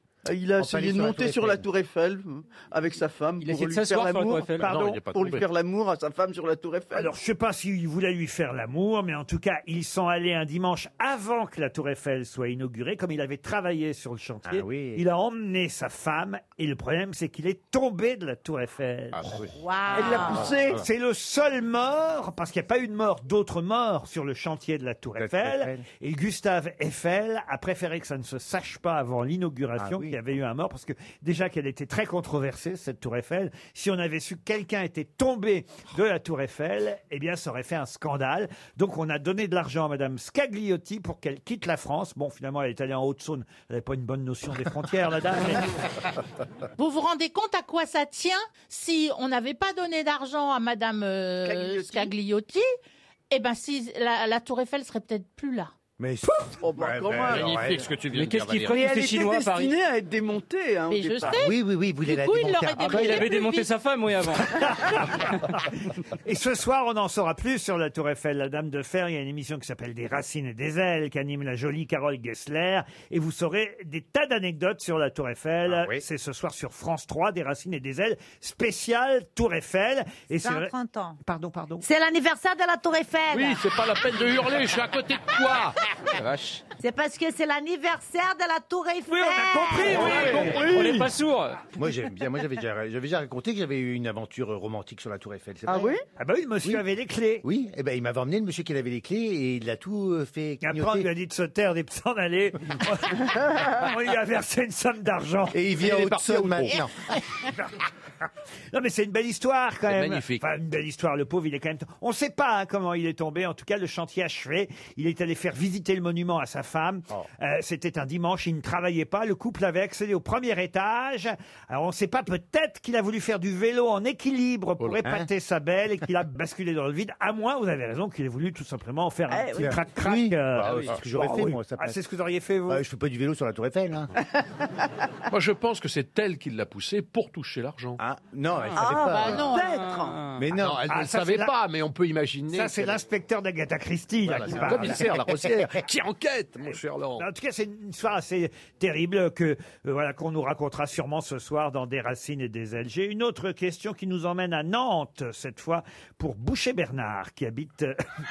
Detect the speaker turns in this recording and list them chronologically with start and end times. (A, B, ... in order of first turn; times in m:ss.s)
0:00.2-0:07.1 A
0:00.6-0:01.6 B
0:03.4-0:04.9 C
0:04.6-0:05.4 D
0:06.9-0:19.4 E
0:14.4-0:15.0 B
0:19.2-0:19.5 D
0:19.6-0:20.5 F
0:19.9-0:20.8 A
0:20.7-0:45.6 E
0:25.2-0:25.8 B
0:29.8-0:30.1 B
0:46.8-0:52.7 G
0:51.4-0:52.1 A
0:53.3-0:55.7 G
0:56.0-0:57.9 B
0:56.6-0:57.6 A
0:57.3-0:58.8 D
0:58.1-0:59.7 C
0:58.7-1:01.4 A
1:00.9-1:03.7 G
1:01.2-1:03.3 B
1:02.8-1:04.6 C
1:04.5-1:05.2 E
1:06.2-1:20.7 E
1:15.7-1:16.0 B
1:20.4-1:21.2 F
1:21.2-1:21.8 E
1:21.8-1:23.6 F
1:23.3-1:25.8 D
1:26.1-1:26.6 C
1:26.8-1:30.2 F
1:29.1-1:30.7 E
1:29.7-1:31.7 C
1:30.0-1:31.1 A
1:31.7-1:36.0 B
1:35.7-1:36.0 A
1:36.2-1:37.4 E
1:37.4-1:41.1 B
1:40.6-1:45.6 E
1:45.5-1:46.9 B
1:45.8-1:46.8 D
1:48.7-2:12.8 E
1:49.9-1:50.4 D
2:09.3-2:09.8 A
2:09.6-2:12.0 B
2:10.6-2:10.9 D
2:12.7-2:14.1 B
2:15.3-2:18.0 D
2:18.0-2:19.5 B
2:18.8-2:20.2 A
2:19.1-2:19.8 G
2:19.6-2:20.5 C
2:20.4-2:20.8 B
2:20.5-2:23.0 D
2:20.9-2:21.5 E
2:22.5-2:25.0 E
2:24.2-2:27.2 D
2:24.5-2:25.7 B
2:27.2-2:38.0 E